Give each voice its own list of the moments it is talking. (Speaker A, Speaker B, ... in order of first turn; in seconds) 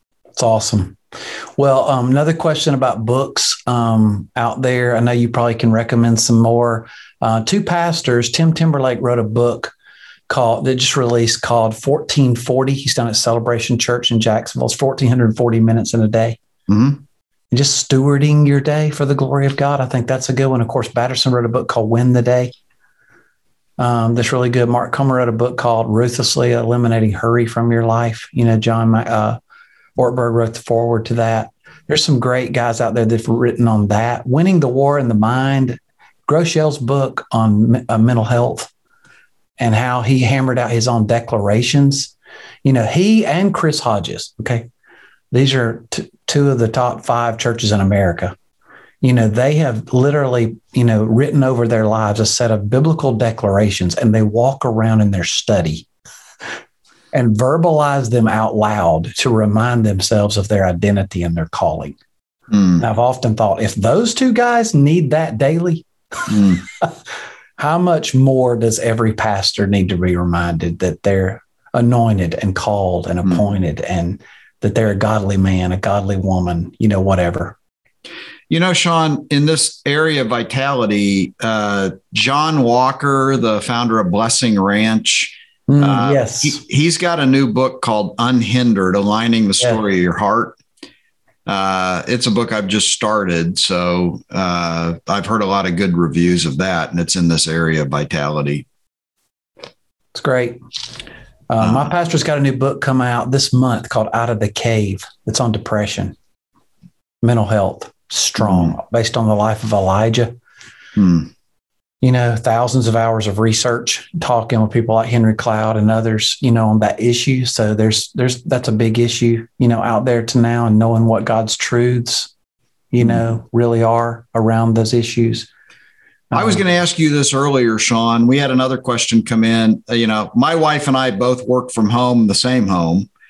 Speaker A: 0.3-1.0, 1.6-9.7, 10.3-16.4, 17.5-22.5, 23.8-29.4, 30.0-38.7, 39.6-42.1, 42.6-44.7, 45.3-48.3, 49.0-55.9, 57.1-62.0, 62.8-66.9, 67.6-77.6, 85.7-86.6, 100.1-100.6, 101.5-106.2, 107.2-110.3, 112.0-122.3, 122.9-125.5, 126.3-126.6
Speaker B: 16.7-17.0, 62.5-62.8, 66.3-66.6, 78.5-90.6, 91.5-98.7, 101.6-101.9, 108.4-108.7, 111.0-111.3, 126.3-133.1